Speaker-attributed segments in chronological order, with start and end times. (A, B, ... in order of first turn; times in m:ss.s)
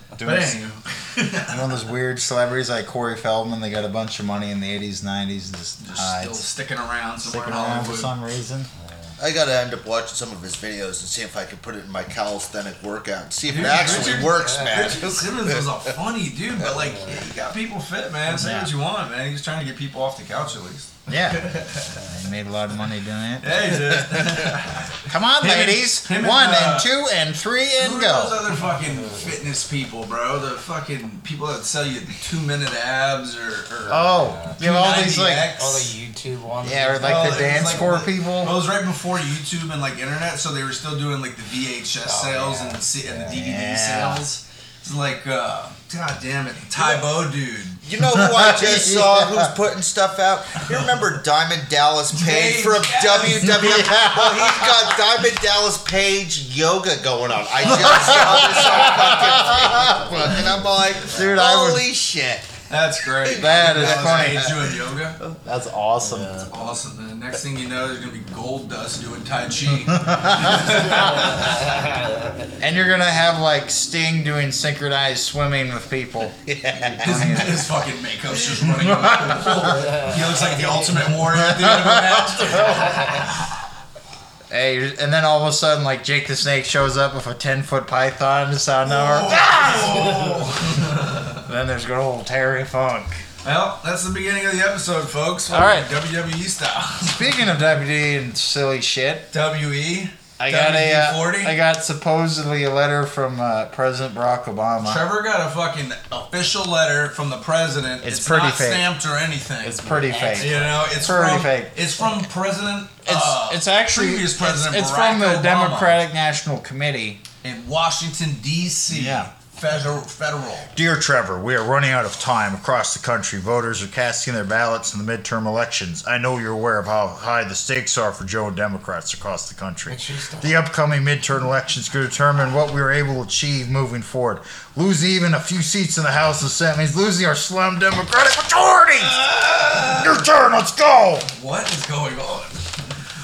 0:00.2-0:00.6 A
0:00.2-0:01.6 B
0:01.5-0:06.4 A
0:05.8-0:08.1 B
0:07.2-0:08.7 A
0:08.8-0:09.1 C
0:09.2-0:15.6 D
0:13.5-0:22.1 B
0:13.6-0:15.1 C
0:16.7-0:17.1 C
0:18.3-0:18.7 A
0:21.1-0:21.5 A
0:22.0-0:24.0 A
0:23.4-0:26.9 B
0:25.1-0:28.4 A
0:27.8-0:35.9 B
0:28.8-0:29.3 C
0:33.9-0:35.5 A
0:34.0-0:34.6 C
0:35.6-0:38.0 C
0:36.6-0:38.5 A
0:37.0-0:47.8 B
0:42.0-0:43.3 C
0:43.2-0:44.2 A
0:46.8-0:47.0 D
0:47.8-1:02.5 D
0:48.0-0:49.5 A
0:52.1-0:53.9 B
0:53.4-0:54.9 A
0:57.6-1:00.3 A
0:58.3-1:00.1 C
1:01.0-1:01.8 A
1:02.7-1:05.2 B
1:03.2-1:04.6 D
1:03.4-1:04.5 A
1:05.4-1:06.5 A
1:06.3-1:11.9 B
1:09.9-1:11.3 A
1:11.3-1:12.2 C
1:12.6-1:17.6 A
1:16.5-1:17.3 D
1:17.0-1:23.0 B
1:18.6-1:20.1 A
1:21.2-1:23.4 A
1:24.5-1:30.6 A
1:28.8-1:31.4 B
1:31.4-1:33.2 A
1:33.4-1:37.4 B
1:35.5-1:35.9 A
1:37.1-1:39.3 A
1:39.3-1:41.6 B
1:40.4-1:45.0 A
1:44.8-1:56.0 B
1:48.0-1:48.8 A
1:49.6-1:52.2 A
1:49.9-1:51.0 C
1:53.0-1:57.2 A
1:57.4-2:00.7 B
1:58.9-1:59.3 A
2:00.7-2:19.2 A
2:09.9-2:10.6 C
2:18.9-2:20.2 B
2:19.9-2:21.3 A
2:21.4-2:22.9 B